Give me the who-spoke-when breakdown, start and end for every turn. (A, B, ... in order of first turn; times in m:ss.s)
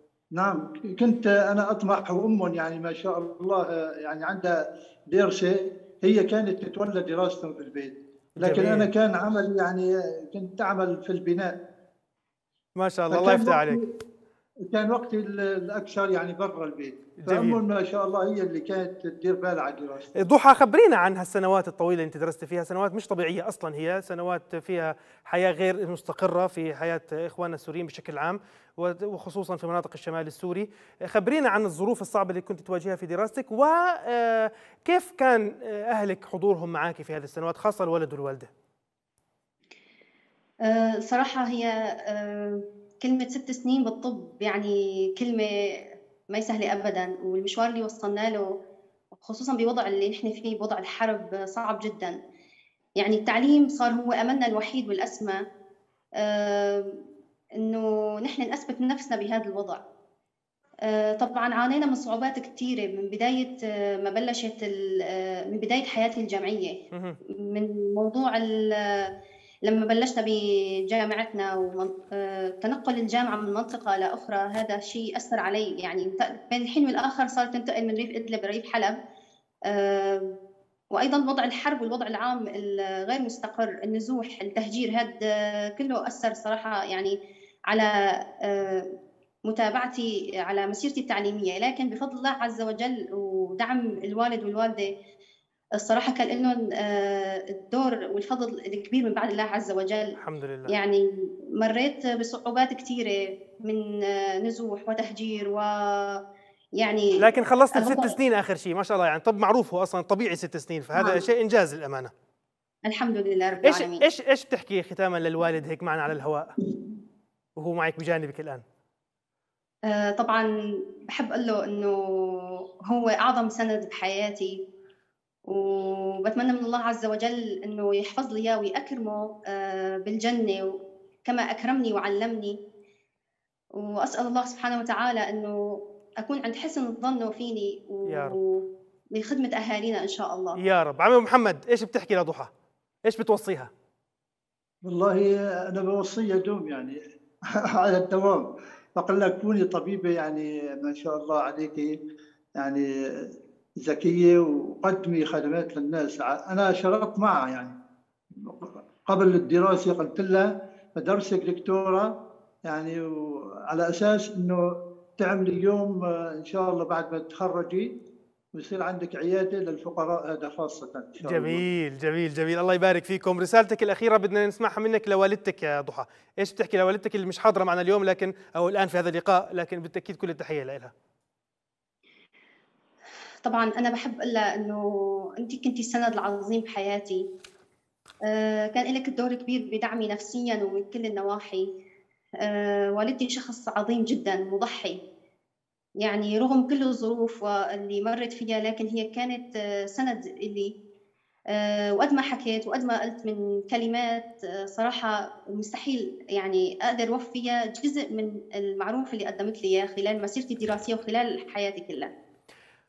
0:00.4-0:04.6 A
0:05.1-0:11.6 A
0:08.4-0:08.9 B
0:12.8-0:13.8 B
0:13.1-0:13.8 A
0:14.7-0:20.1 A
0:17.2-0:17.6 B
0:20.2-0:38.5 B
0:40.7-0:45.8 C
0:46.3-0:48.5 C
0:49.1-0:52.2 C
0:53.0-0:55.4 C
0:56.2-0:56.9 C
0:57.6-0:59.8 C
1:00.9-1:06.8 C
1:06.9-1:07.2 B
1:07.5-1:09.1 C
1:09.6-1:19.0 C
1:19.7-1:20.3 C
1:20.9-1:27.2 C
1:28.4-1:28.9 C
1:29.5-1:34.9 C
1:35.8-1:40.1 C
1:40.2-1:40.7 B
1:40.7-1:41.0 C
1:41.6-1:46.2 C
1:46.8-1:47.1 C
1:47.2-1:52.1 B
1:47.8-1:48.1 C
1:52.9-1:54.0 C
1:53.6-1:56.5 B
1:57.6-1:58.6 B
1:59.9-2:00.5 C
2:01.0-2:04.6 C
2:05.5-2:12.6 C
2:13.8-2:15.6 C
2:16.2-2:18.6 C
2:18.1-2:18.4 B
2:19.2-2:20.6 C
2:20.6-2:22.5 B
2:23.1-2:23.7 B
2:24.8-2:27.0 A
2:27.7-2:28.5 A
2:29.0-2:32.0 A
2:32.6-2:33.3 A
2:33.8-2:37.8 A
2:38.4-2:42.1 A
2:42.7-2:44.6 A
2:45.2-2:47.9 A
2:48.6-2:51.6 A
2:51.2-3:00.9 B
3:03.4-3:04.8 C
3:05.4-3:07.3 C
3:08.3-3:11.7 C
3:12.4-3:15.0 C
3:16.0-3:20.7 C
3:21.5-3:32.1 C